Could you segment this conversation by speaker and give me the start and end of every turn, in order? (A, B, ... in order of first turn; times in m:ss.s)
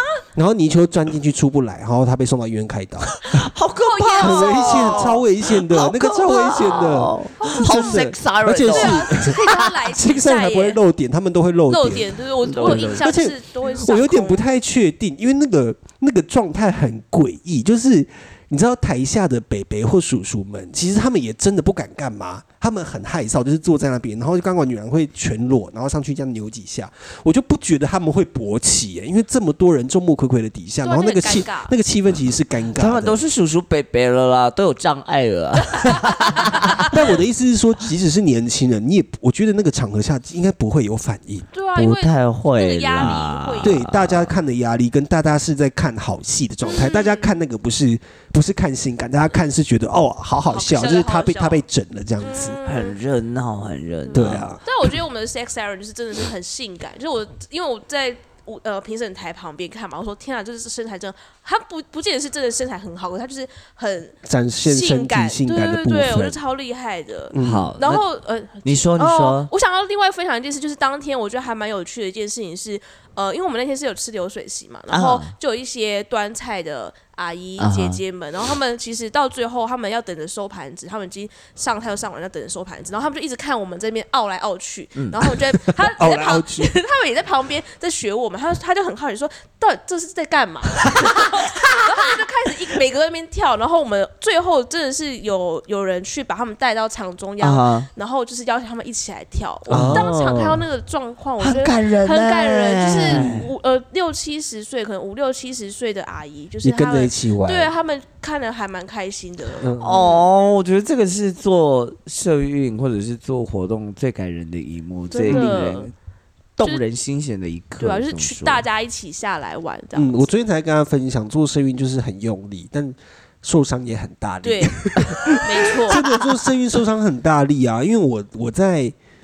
0:00.3-0:03.2 A
0:03.2-0:09.8 B
0:03.8-0:05.2 C
0:04.2-0:33.2 A
0:07.4-0:08.0 C
0:08.7-0:10.8 C
0:11.7-0:14.4 C
0:12.4-0:13.1 B
0:30.8-0:31.7 C
0:32.8-0:36.9 B
0:36.8-0:41.5 A
0:41.5-0:43.8 C
0:41.8-0:44.4 B
0:43.6-0:52.6 A
0:46.7-0:47.4 C
0:50.5-0:51.6 C
0:52.2-0:53.0 C
0:52.6-0:54.5 B
0:54.0-1:50.2 C
0:54.2-0:54.7 A
1:04.2-1:06.4 A
1:07.3-1:07.7 A
1:07.4-1:08.0 B
1:08.6-1:09.5 B
1:14.9-1:15.3 B
1:17.6-1:18.0 B
1:25.0-1:25.3 B
1:25.8-1:26.7 A
1:30.8-1:31.3 B
1:37.4-1:37.9 B
1:39.7-1:40.6 A
1:39.7-1:40.1 B
1:41.4-1:43.5 B
1:43.1-1:43.4 A
1:46.6-1:47.7 A
1:49.6-1:50.0 A
1:49.8-1:55.9 B
1:55.1-1:55.9 C
1:55.3-1:55.6 A
1:56.6-1:58.6 B
1:57.8-2:00.3 C
2:00.0-2:08.9 A
2:04.4-2:06.1 C